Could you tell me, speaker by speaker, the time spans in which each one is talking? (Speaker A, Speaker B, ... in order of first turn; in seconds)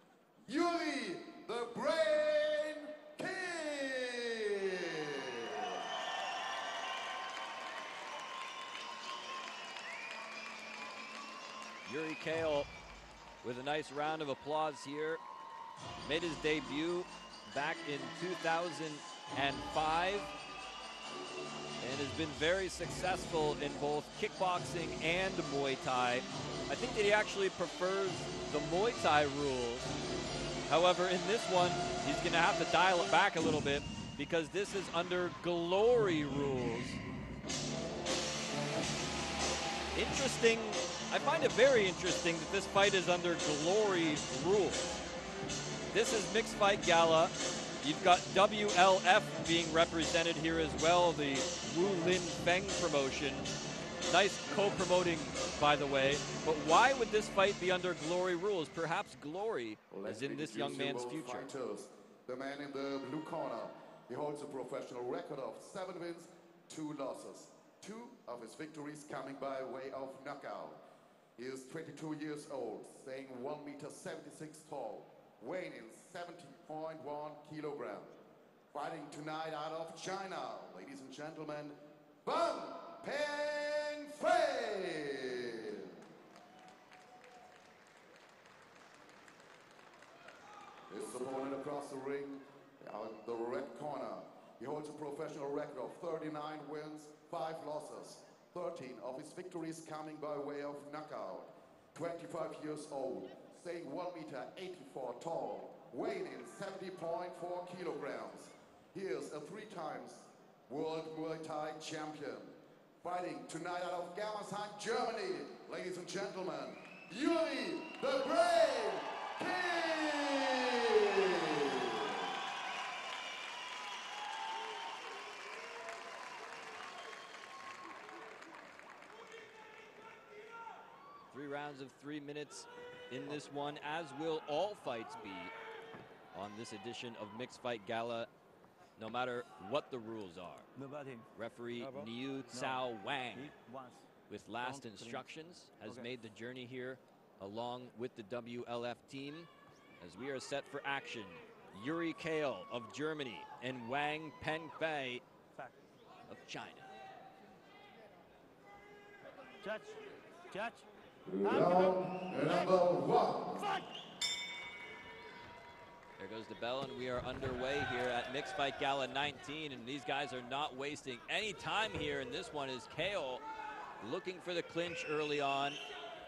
Speaker A: 0.5-5.8, 59.9-70.8, 71.4-78.1, 78.7-86.0, 90.9-122.3, 161.3-163.7
Speaker B: 11.8-12.7, 13.4-15.2, 16.0-20.3, 21.8-29.9, 30.7-37.0, 40.0-45.0, 45.9-53.5, 54.1-61.5, 131.3-135.5, 136.3-138.3, 139.0-140.7, 141.3-143.5, 144.3-155.2, 156.3-156.9, 166.2-173.4, 174.0-175.8
Speaker C: 140.8-142.8, 143.3-144.1, 144.6-145.2, 159.6-160.9, 161.4-161.9